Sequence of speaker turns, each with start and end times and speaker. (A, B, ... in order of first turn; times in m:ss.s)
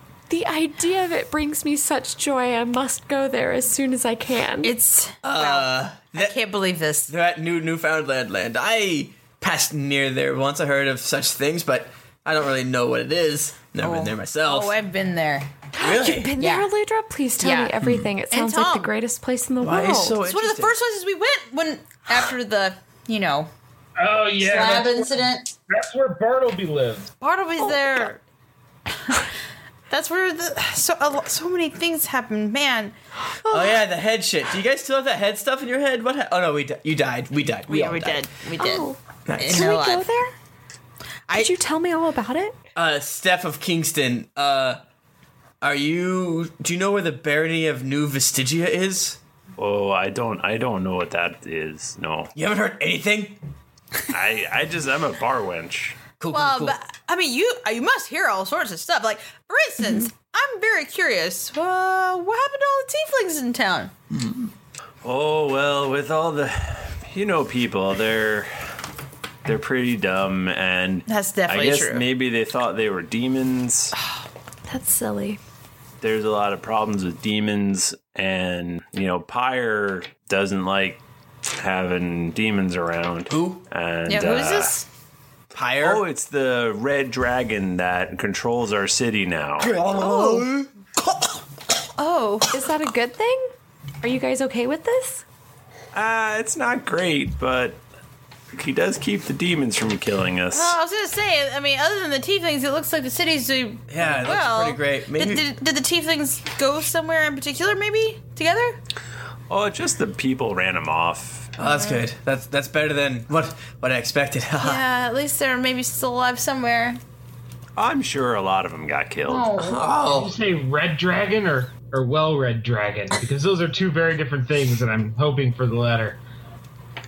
0:00.3-0:04.7 A
0:04.6-0:07.1 B
0:05.2-0:06.4 C
0:07.1-0:14.7 C
0:13.8-0:15.6 B
0:15.8-0:20.2 A
0:15.8-0:16.3 C
0:16.4-0:16.7 B
0:17.4-0:17.7 B
0:18.3-0:18.9 B
0:19.6-0:20.7 C
0:20.2-0:23.5 B
0:24.0-0:25.1 D
0:24.4-0:25.5 B
0:25.7-0:27.1 D
0:27.2-0:28.2 B
0:27.6-0:28.0 A
0:29.9-0:32.9 B
0:33.4-0:33.8 A
0:33.5-0:38.2 C
0:37.7-0:40.1 B
0:38.6-0:40.3 A
0:39.3-0:39.7 C
0:41.3-0:42.6 A
0:42.8-0:44.8 C
0:45.6-0:49.2 C
0:49.6-0:52.3 E
0:52.4-0:53.4 C
0:54.1-0:56.1 E
0:56.2-0:56.8 C
0:56.3-1:03.9 B
1:04.2-1:04.4 C
1:05.0-1:08.5 E
1:09.4-1:14.0 E
1:11.1-1:12.1 B
1:14.7-1:15.4 A
1:16.0-1:21.0 E
1:21.6-1:24.7 E
1:23.3-1:23.7 C
1:24.1-1:24.8 B
1:25.5-1:26.0 C
1:25.8-1:29.8 E
1:29.6-1:31.4 C
1:29.9-1:30.5 B
1:32.0-1:32.5 B
1:32.5-1:33.5 A
1:34.0-1:35.2 A
1:35.9-1:37.8 E
1:38.5-1:40.8 E
1:40.5-1:48.8 B
1:43.9-1:45.4 C
1:49.5-1:51.5 E
1:51.6-1:54.8 C
1:51.6-1:52.0 B
1:54.6-1:57.0 B
1:57.8-1:59.5 E
1:59.3-1:59.9 B
1:59.6-2:00.4 C
2:00.0-2:06.2 D